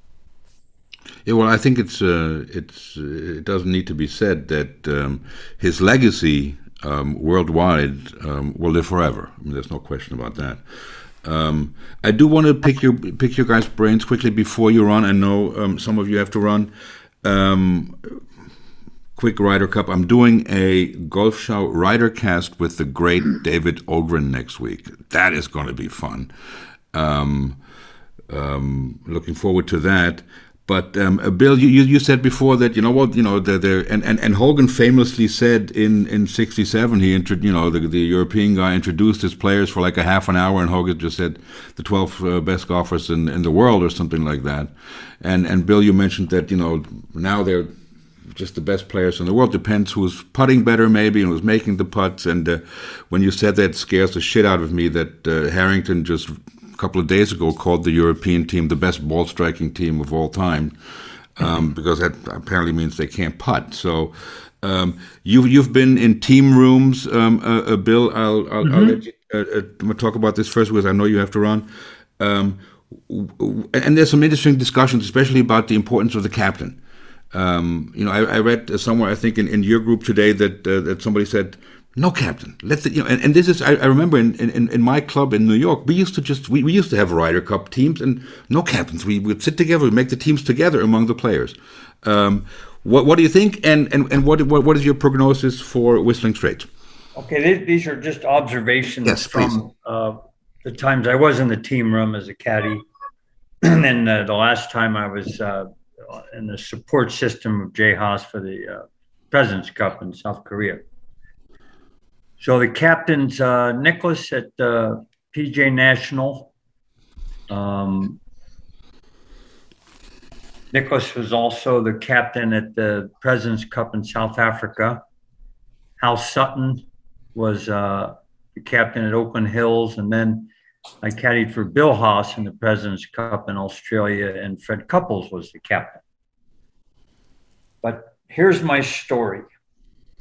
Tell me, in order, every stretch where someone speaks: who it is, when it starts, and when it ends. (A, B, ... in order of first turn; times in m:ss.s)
0:01.2-0:16.7 A
0:17.2-0:18.2 A
0:19.2-0:26.3 A
0:26.9-0:27.6 A
0:28.3-0:47.8 A
0:48.3-1:00.8 A
1:01.4-1:16.8 A
1:08.6-1:09.0 B
1:17.3-1:36.7 A
1:37.2-1:42.8 B
1:39.0-1:39.6 A
1:43.6-1:50.8 B
1:52.4-1:56.5 B
1:57.5-1:58.2 B
2:00.7-2:05.0 B
2:06.0-2:10.5 B
2:11.0-2:16.0 B
2:17.8-2:19.5 B